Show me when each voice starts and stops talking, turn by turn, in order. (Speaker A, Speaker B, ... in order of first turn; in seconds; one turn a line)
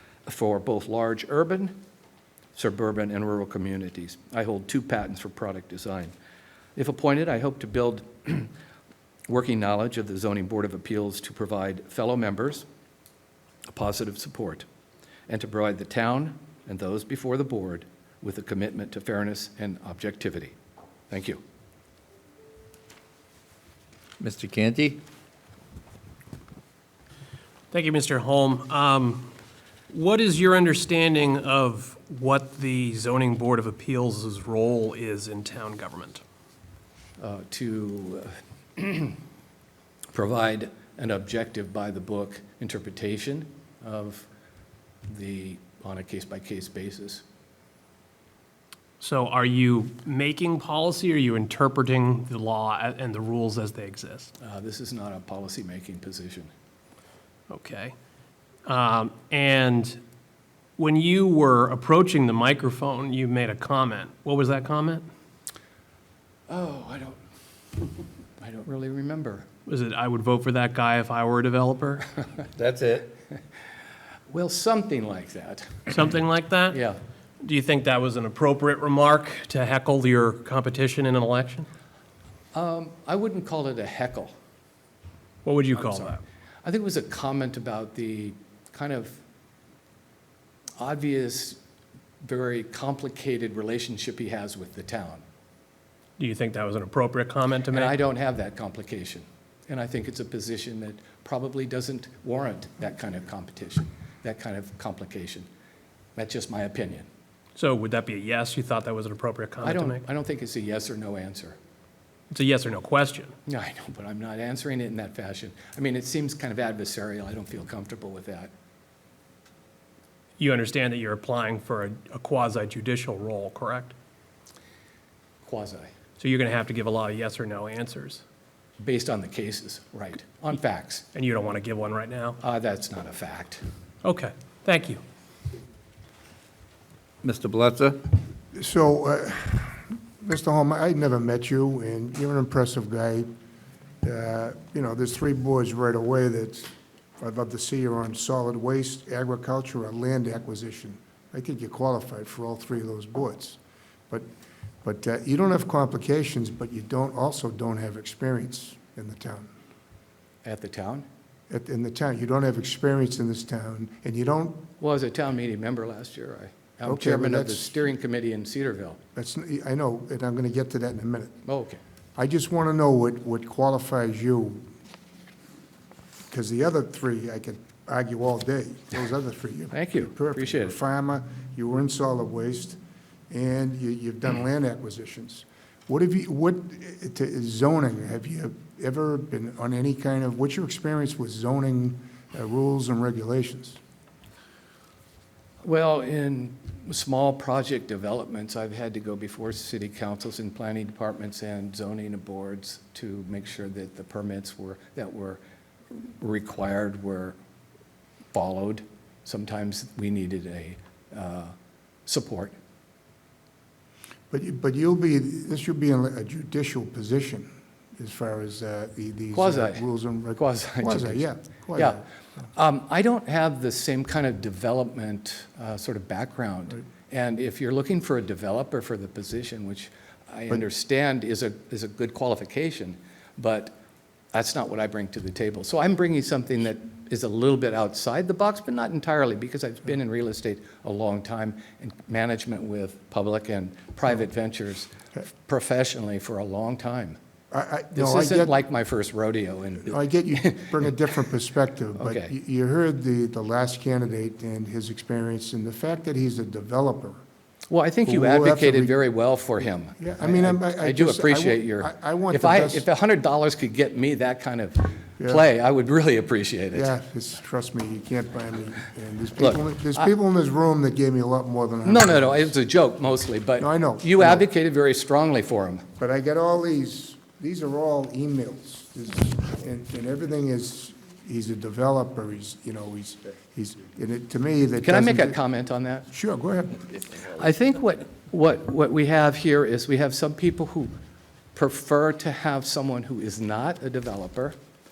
Speaker A: 0.2-1.8
Speaker A: 2.5-6.1
Speaker A: 6.8-8.5
Speaker A: 9.3-12.7
Speaker A: 13.7-14.7
Speaker A: 15.3-20.6
Speaker A: 21.1-21.4
Speaker B: 24.2-25.0
Speaker C: 27.7-29.3
Speaker C: 29.9-36.2
Speaker A: 37.2-39.2
Speaker A: 40.1-44.3
Speaker A: 45.1-47.2
Speaker C: 49.0-54.3
Speaker A: 54.4-56.5
Speaker C: 57.5-57.9
Speaker C: 58.6-60.0
Speaker C: 60.8-65.0
Speaker A: 66.5-67.2
Speaker A: 68.4-69.5
Speaker C: 69.7-72.2
Speaker B: 72.5-73.1
Speaker A: 74.3-75.8
Speaker C: 75.9-76.8
Speaker A: 76.7-77.0
Speaker C: 77.4-81.7
Speaker A: 82.5-84.3
Speaker C: 85.4-86.2
Speaker A: 85.7-89.2
Speaker A: 90.8-91.6
Speaker A: 92.2-95.2
Speaker C: 96.2-97.9
Speaker A: 97.7-105.5
Speaker A: 106.2-107.1
Speaker C: 107.5-110.0
Speaker A: 109.6-111.6
Speaker C: 112.3-113.3
Speaker A: 113.5-118.5
Speaker C: 120.4-123.9
Speaker A: 125.4-125.9
Speaker C: 126.2-128.2
Speaker A: 128.8-131.1
Speaker C: 131.1-132.4
Speaker A: 132.4-133.6
Speaker C: 134.0-135.0
Speaker B: 137.2-138.0
Speaker D: 138.5-143.3
Speaker D: 144.0-153.6
Speaker D: 154.8-159.5
Speaker A: 160.4-161.1
Speaker D: 161.5-164.7
Speaker A: 164.8-169.0
Speaker D: 166.8-167.8
Speaker D: 169.2-171.4
Speaker A: 171.4-171.8
Speaker D: 172.2-174.7
Speaker D: 176.3-182.8
Speaker A: 179.7-180.8
Speaker D: 183.3-193.8
Speaker A: 195.6-205.4
Speaker A: 205.9-207.4
Speaker A: 208.3-211.5
Speaker A: 212.1-212.5
Speaker D: 214.3-222.0
Speaker A: 219.3-222.0
Speaker A: 222.5-233.8
Speaker A: 234.3-247.2
Speaker D: 247.5-248.5
Speaker A: 247.9-250.9
Speaker D: 249.8-257.2
Speaker A: 251.9-252.3
Speaker A: 257.7-266.9
Speaker D: 258.0-259.0
Speaker D: 260.0-262.9
Speaker D: 266.7-272.5
Speaker A: 271.8-275.9
Speaker D: 273.6-274.4
Speaker D: 276.0-285.4
Speaker A: 284.8-286.1
Speaker D: 286.1-287.0
Speaker A: 287.1-290.9
Speaker A: 291.5-294.6